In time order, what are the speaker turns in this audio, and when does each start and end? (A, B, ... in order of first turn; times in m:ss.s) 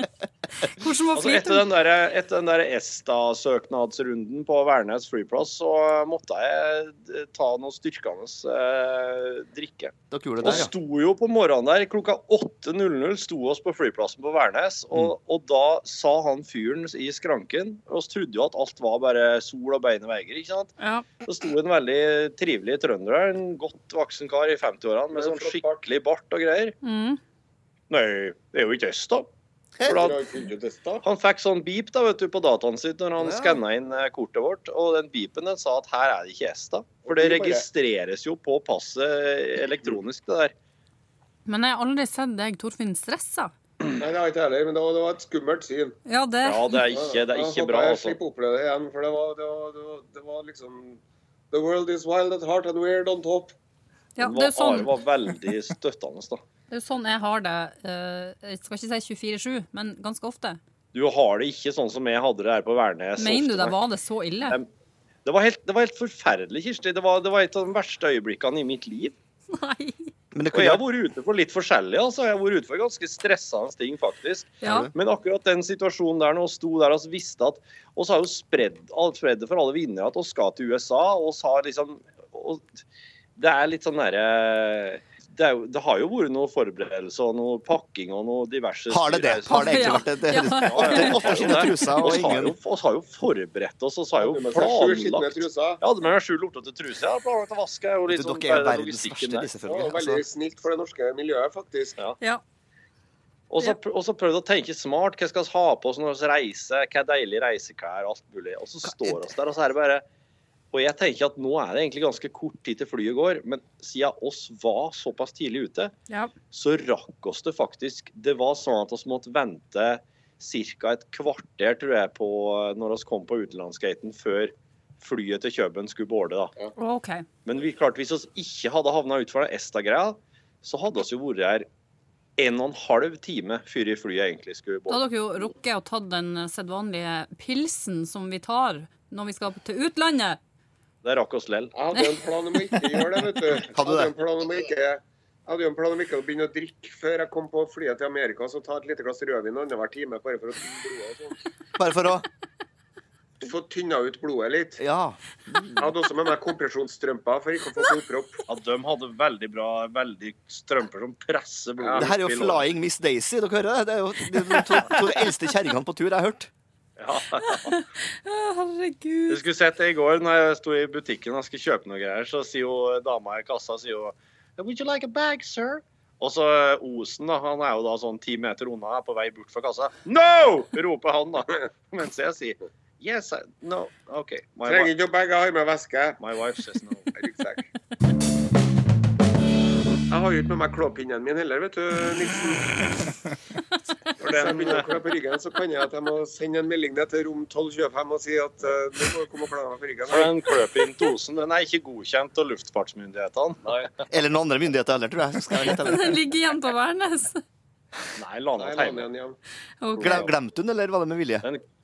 0:00.8-0:01.7 A
0:01.2-0:20.7 B
0:10.1-0:10.7 C
0:20.8-0:21.1 A
0:21.2-0:26.8 B
0:25.1-0:25.8 D
0:26.8-0:27.2 A
0:27.9-0:29.3 B
0:29.8-0:30.1 C
0:29.8-0:30.2 B
0:29.8-0:31.0 D
0:31.0-0:40.5 B
0:37.1-0:37.7 D
0:41.5-0:43.5 A
0:44.0-0:46.0 D
0:46.1-0:46.8 A
0:46.4-0:48.2 B
0:46.9-0:51.0 D
0:51.5-0:53.5 D
0:54.2-0:54.9 A
0:54.2-0:56.4 B
0:56.7-1:00.6 A
1:00.9-1:03.8 B
1:03.2-1:04.6 A
1:05.2-1:09.2 B
1:09.5-1:10.1 A
1:10.3-1:10.8 C
1:10.5-1:22.8 B
1:14.6-1:14.9 A
1:14.6-1:14.9 C
1:23.4-1:30.1 B
1:28.9-1:32.6 C
1:29.5-1:31.9 A
1:30.6-1:39.5 B
1:34.2-1:35.8 D
1:38.1-1:40.3 C
1:39.6-1:42.0 D
1:43.5-1:50.0 B
1:48.8-1:49.3 C
1:50.7-1:55.9 B
1:56.5-2:06.5 B
2:06.8-2:07.3 A
2:07.5-2:11.7 B
2:12.4-2:15.0 B
2:14.9-2:20.4 A
2:21.0-2:21.7 B
2:21.7-2:31.4 D
2:23.7-2:24.1 C
2:31.8-2:32.3 C
2:33.4-2:34.8 D
2:34.8-2:35.9 C
2:35.8-2:38.4 D
2:38.5-2:42.7 B
2:41.8-2:42.1 D
2:42.0-2:46.5 C
2:47.0-2:47.8 B
2:47.4-2:49.4 A
2:49.3-3:04.9 B
3:04.7-3:06.2 D
3:06.2-3:07.1 B
3:07.2-3:07.7 D
3:10.1-3:13.0 D
3:14.2-3:20.5 D
3:14.2-3:15.0 B
3:20.1-3:23.6 B
3:24.1-3:26.2 C
3:25.6-3:27.4 A
3:28.2-3:29.1 B
3:28.6-3:29.4 D
3:29.8-3:30.3 A
3:30.0-3:31.5 C